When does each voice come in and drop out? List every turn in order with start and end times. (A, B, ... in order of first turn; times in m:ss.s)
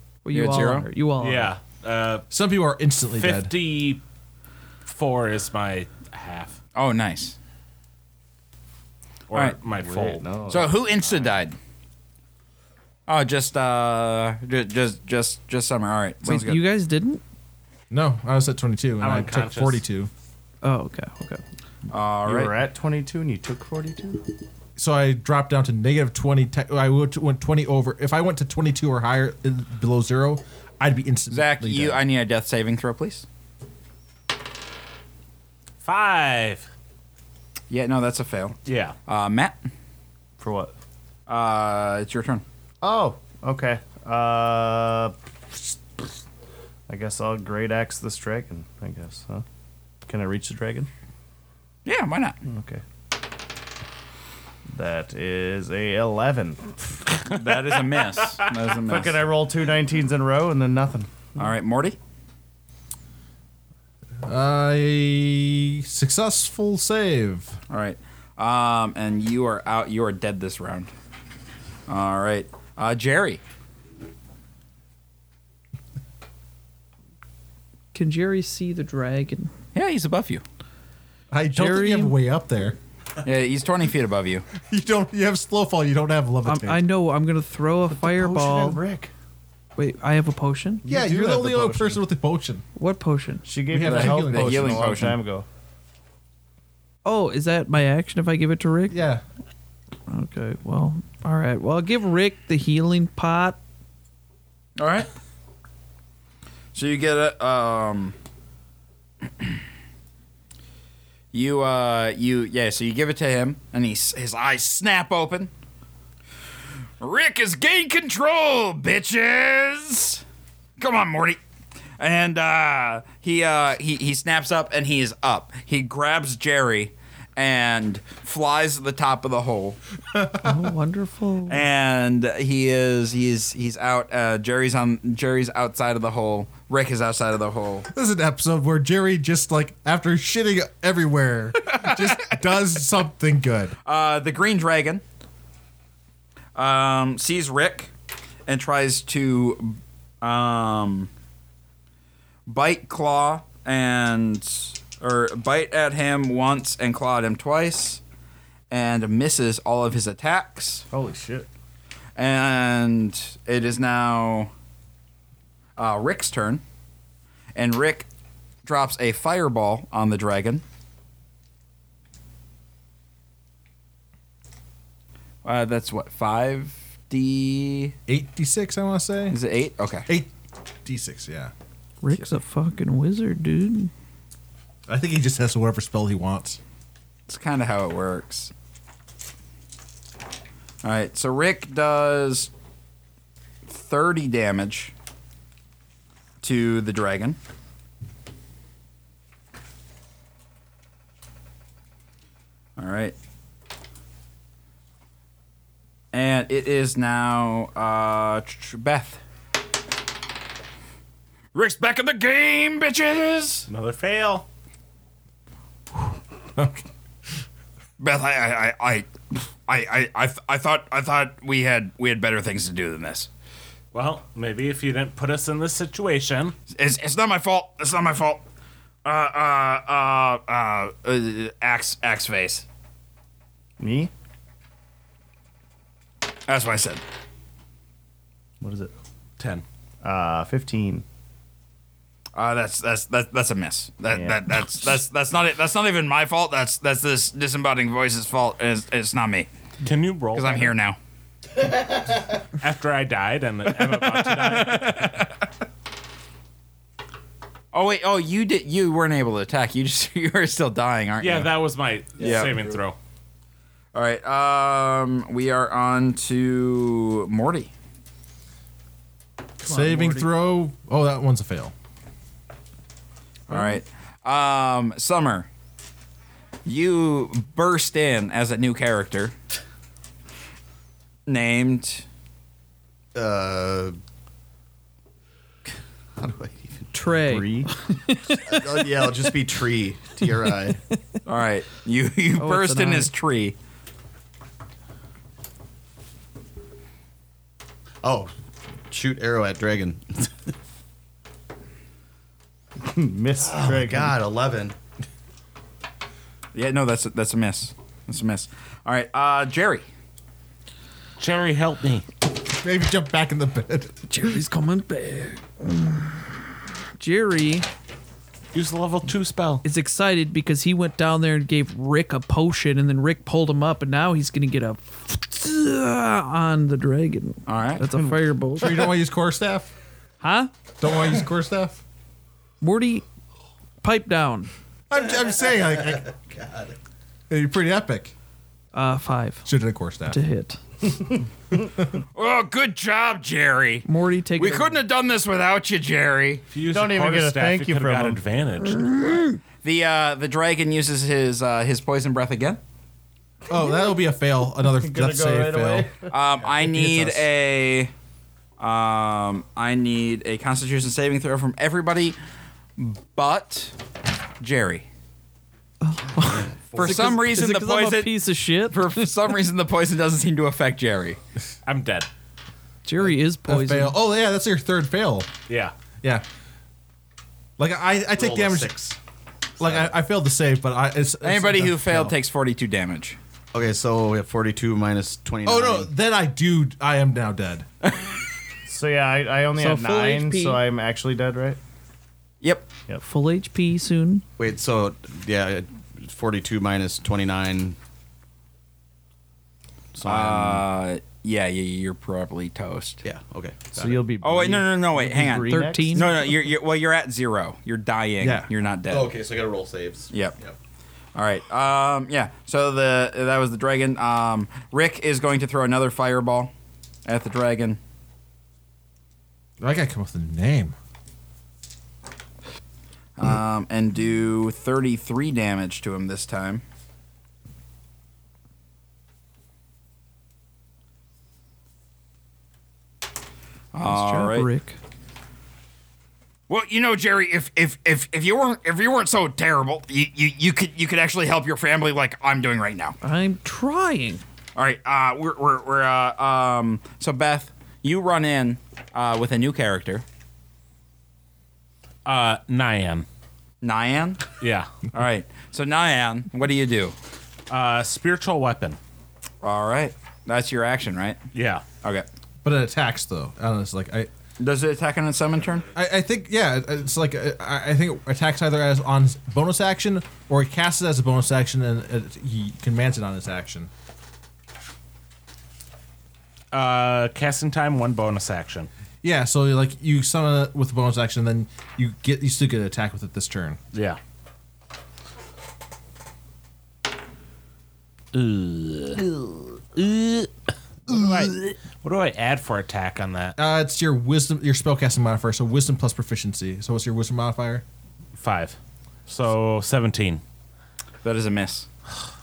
0:00.2-0:01.5 A
0:00.3-0:00.9 B
0:01.2-0:02.2 C
0:02.3-0:03.5 D
0:03.2-0:04.0 C
0:04.9-0:06.6 C
0:06.7-0:07.4 B
0:09.3-0:10.3 C
0:09.3-0:09.6 B
0:09.7-0:11.3 E
0:10.5-0:11.6 B
0:13.1-0:16.6 B
0:16.2-0:17.2 A
0:17.9-0:20.1 D
0:19.0-0:19.8 C
0:20.6-0:21.4 A
0:21.9-0:22.5 B
0:22.2-0:24.3 E
0:24.8-0:32.0 D
0:31.3-0:33.2 B
0:35.8-0:36.7 C
0:37.7-0:39.6 B
0:38.6-0:38.9 C
0:40.4-0:40.7 E
0:41.3-0:42.4 B
0:42.8-0:45.8 E
0:46.9-0:49.4 E
0:50.0-0:50.9 E
0:51.8-0:52.4 B
0:52.4-0:52.8 E
0:54.7-0:57.0 E
0:57.3-0:59.2 B
0:58.8-1:01.1 E
1:01.4-1:02.0 B
1:04.2-1:07.6 D
1:07.7-1:10.9 B
1:11.9-1:13.4 B
1:17.9-1:19.5 A
1:19.7-1:20.4 B
1:21.3-1:22.8 D
1:21.5-1:22.1 A
1:23.2-1:24.4 B
1:24.6-1:26.8 D
1:26.4-1:28.8 A
1:27.9-1:29.1 E
1:29.8-1:30.9 A
1:30.8-1:32.0 E
1:30.8-1:32.6 D
1:32.8-1:33.6 A
1:33.4-1:35.4 E
1:33.7-1:35.0 D
1:33.8-1:35.2 B
1:37.0-1:39.0 A
1:38.9-1:39.2 D
1:40.1-1:43.6 A
1:44.8-1:45.1 B
1:46.7-1:48.1 B
1:51.3-1:55.5 B
1:57.0-2:00.2 B
2:00.8-2:01.4 B
2:02.0-2:09.8 B
2:10.1-2:10.7 D
2:10.4-2:11.6 A
2:11.5-2:17.9 B
2:17.9-2:23.7 D
2:21.6-2:22.4 B
2:23.8-2:25.0 B
2:26.6-2:27.9 B
2:28.5-2:31.1 B
2:32.5-2:38.0 B
2:38.7-2:40.9 B
2:40.9-2:41.5 E
2:42.2-2:44.5 B
2:45.8-2:46.6 B
2:47.5-2:48.1 B
2:48.6-2:50.6 B
2:55.4-2:58.0 B
2:58.1-2:59.4 D
2:59.3-3:00.1 B
3:00.8-3:01.5 D
3:02.0-3:03.9 A
3:04.9-3:06.6 D
3:07.3-3:08.5 B
3:10.8-3:12.5 B
3:13.7-3:14.9 B
3:16.4-3:17.4 B
3:22.8-3:23.1 B
3:26.1-3:29.2 B
3:31.5-3:33.7 B
3:33.7-3:34.4 C
3:36.6-3:36.8 D
3:38.0-3:43.3 B
3:43.9-3:46.6 C
3:46.7-3:48.4 B
3:49.0-3:52.6 B
3:53.8-3:54.1 E
3:56.5-3:57.0 B
3:58.6-3:58.9 E
3:59.4-3:59.6 C
4:00.0-4:01.0 E
4:02.3-4:09.5 B
4:04.1-4:04.4 E
4:09.8-4:10.7 C
4:10.3-4:11.0 B
4:12.6-4:15.3 C
4:14.0-4:15.3 B
4:17.7-4:21.5 B
4:21.2-4:23.0 C
4:22.2-4:22.6 B
4:23.9-4:27.7 B
4:29.6-4:31.7 D
4:29.6-4:30.3 A
4:33.5-4:35.5 B
4:36.6-4:39.3 B
4:41.3-4:42.0 B
4:43.1-4:44.0 F
4:46.2-4:46.9 F
4:46.9-4:49.3 A
4:47.1-4:47.7 E
4:48.4-4:50.8 F
4:51.2-4:53.6 B
4:52.4-4:53.1 A
4:58.0-4:58.3 F
4:58.9-5:00.3 F
5:02.8-5:04.2 E
5:03.5-5:04.7 F
5:06.5-5:09.8 B
5:11.2-5:12.0 C
5:12.4-5:13.9 D
5:14.1-5:16.3 A
5:17.0-5:17.7 A
5:18.5-5:19.6 C
5:19.6-5:28.9 A
5:27.4-5:27.8 B
5:28.6-5:29.7 D
5:30.2-5:30.5 A
5:30.8-5:31.8 D
5:32.6-5:33.0 A
5:33.8-5:34.5 A
5:34.9-5:36.1 D
5:36.0-5:36.7 F
5:37.3-5:38.1 D
5:38.7-5:39.5 A
5:39.4-5:40.2 D
5:40.1-5:40.6 A
5:42.1-5:43.8 B
5:43.8-5:44.8 A
5:44.4-5:46.4 B
5:46.5-5:49.0 C
5:46.7-5:48.2 E
5:49.6-5:52.6 B
5:53.5-5:55.9 D
5:54.6-5:56.1 E
5:56.1-5:57.9 B
5:56.6-5:57.2 D
5:58.6-6:02.2 B
6:02.8-6:03.8 B
6:04.4-6:04.9 B
6:05.8-6:09.1 A
6:06.2-6:07.2 F
6:06.7-6:11.2 B
6:11.6-6:12.1 C
6:12.8-6:14.0 A
6:13.0-6:15.3 D
6:15.5-6:15.7 C
6:17.6-6:18.8 D
6:18.2-6:19.0 F
6:19.6-6:22.1 D
6:19.6-6:19.9 F
6:21.2-6:23.2 B
6:23.5-6:25.9 F
6:25.4-6:27.7 D
6:28.6-6:31.6 E
6:29.6-6:30.6 A
6:32.4-6:32.7 B
6:33.0-6:34.2 A
6:34.4-6:37.8 F
6:39.9-6:40.6 F
6:40.0-6:43.0 B
6:43.0-6:44.0 F
6:43.7-6:46.1 E
6:44.2-6:49.1 B
6:45.4-6:46.1 A
6:48.2-6:48.5 D
6:48.9-6:50.5 F
6:50.1-6:50.4 B
6:51.2-6:56.5 B
6:57.0-6:57.8 B
6:59.6-7:00.7 D
7:03.2-7:06.6 B
7:13.7-7:14.5 B
7:13.8-7:14.8 A
7:16.5-7:23.0 B
7:23.0-7:24.2 A
7:24.5-7:30.0 B
7:32.0-7:33.0 C
7:33.6-7:34.2 B
7:34.4-7:34.7 C
7:34.9-7:37.0 B
7:37.5-7:38.8 C
7:39.4-7:41.2 B
7:41.3-7:41.6 C
7:42.4-7:44.1 D
7:44.4-7:45.7 B
7:45.7-7:53.7 D
7:56.5-7:58.7 C
7:59.0-8:03.6 D
8:03.7-8:04.0 C
8:08.1-8:09.2 C
8:09.7-8:10.3 C
8:10.8-8:13.4 C
8:13.4-8:17.6 D
8:18.2-8:20.2 C
8:21.0-8:21.7 B